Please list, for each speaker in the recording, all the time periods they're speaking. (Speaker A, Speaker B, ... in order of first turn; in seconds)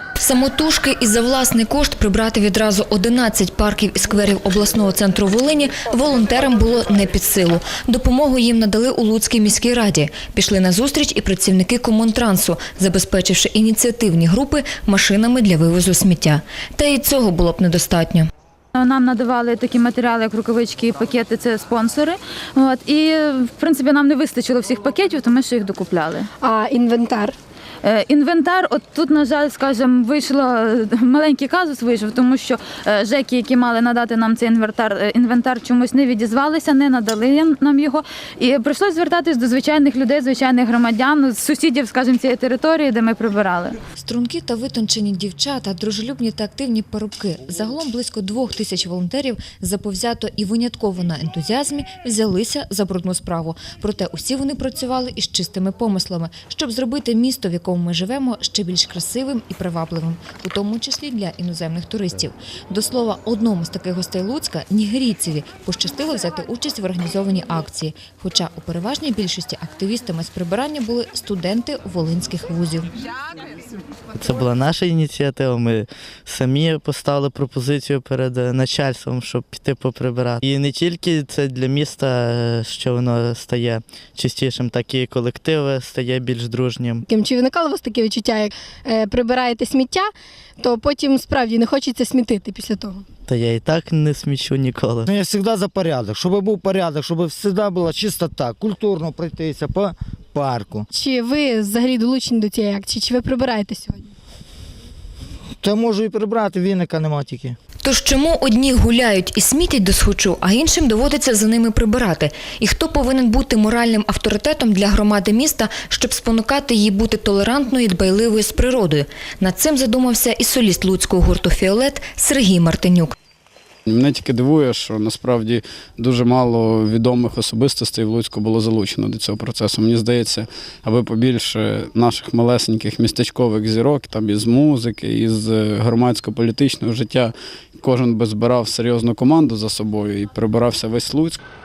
Speaker A: 0.2-18.3, 44.0-72.9, 107.8-123.2
Speaker B: 18.8-26.3, 27.8-43.8
Speaker C: 26.4-27.4, 87.1-90.1, 90.6-93.0, 100.9-104.1
Speaker D: 74.2-87.0, 93.3-95.1
Speaker E: 95.1-100.9, 105.6-107.6
Speaker F: 123.9-141.4